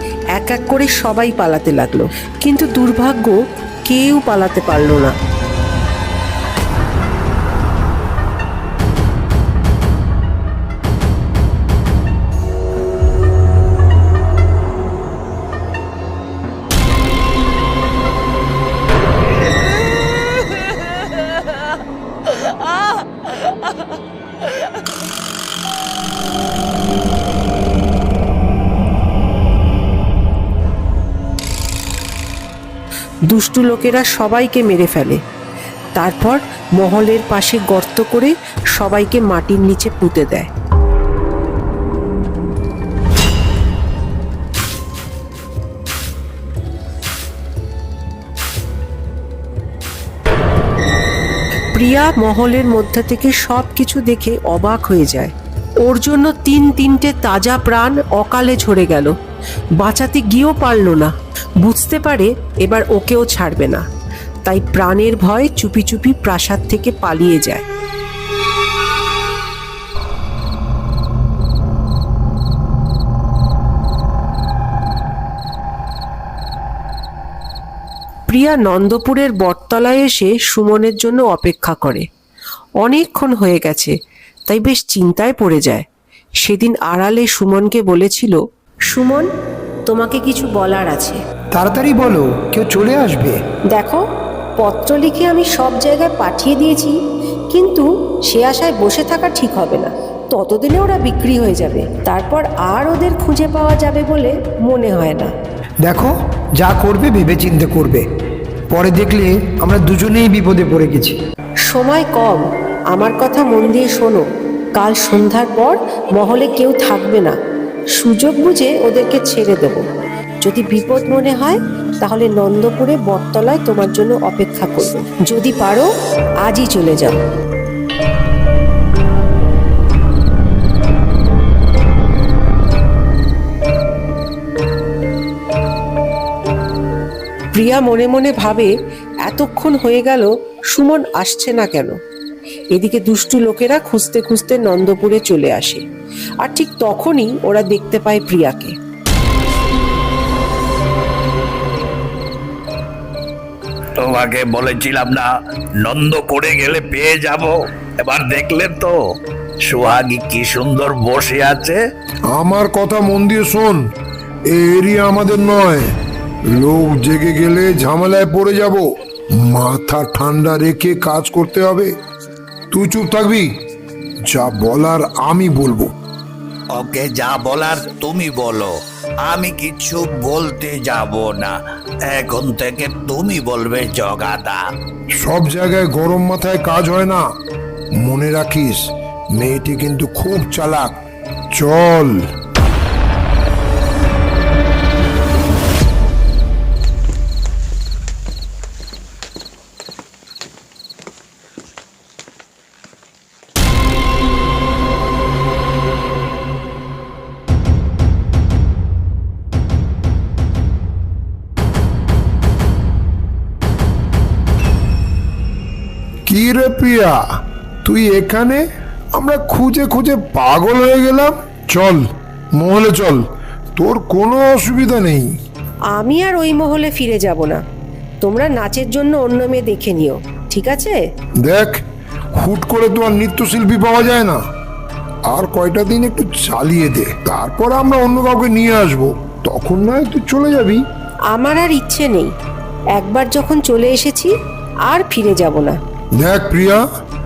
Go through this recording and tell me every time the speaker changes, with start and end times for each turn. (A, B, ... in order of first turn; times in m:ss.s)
0:00.3-0:05.2 A
0:33.3-0:35.2 A
0:36.0-0:40.5 A
0:51.7-0:55.3 A
0:55.8-0:59.1 A
0:59.8-1:03.8 A
1:04.4-1:07.6 A
1:18.3-1:22.1 A
1:22.8-1:24.0 A
1:24.5-1:25.9 A
1:26.4-1:29.3 A
1:29.9-1:31.2 A
1:31.6-1:33.4 B
1:33.7-1:34.0 A
1:34.6-1:37.0 A
1:37.5-1:45.3 A
1:45.8-1:48.0 B
1:48.7-1:51.2 B
1:51.7-1:54.2 A
1:54.8-1:57.4 A
1:58.0-1:59.8 A
2:00.4-2:05.9 A
2:06.4-2:07.2 A
2:17.5-2:18.7 A
2:19.2-2:22.0 A
2:22.7-2:25.8 A
2:26.4-2:28.8 A
2:34.0-2:35.3 C
2:35.8-2:39.0 C
2:39.7-2:41.8 C
2:42.3-2:43.8 D
2:44.5-2:45.9 D
2:46.5-2:48.8 D
2:49.4-2:51.9 D
2:52.7-2:53.5 D
2:54.3-2:55.9 D
2:56.7-2:58.7 C
2:59.2-3:01.6 C
3:02.1-3:04.6 C
3:05.2-3:07.2 D
3:08.0-3:10.9 D
3:11.5-3:12.1 D
3:36.3-3:37.2 D
3:37.8-3:38.6 D
3:39.2-3:42.0 D
3:42.6-3:43.2 D
3:43.8-3:45.3 D
3:45.9-3:47.6 A
3:48.2-3:51.0 A
3:51.4-3:51.8 D
3:52.4-3:54.4 D
3:55.3-4:00.8 D
4:01.3-4:02.3 A
4:03.0-4:04.3 A
4:04.9-4:05.8 A
4:06.2-4:06.8 D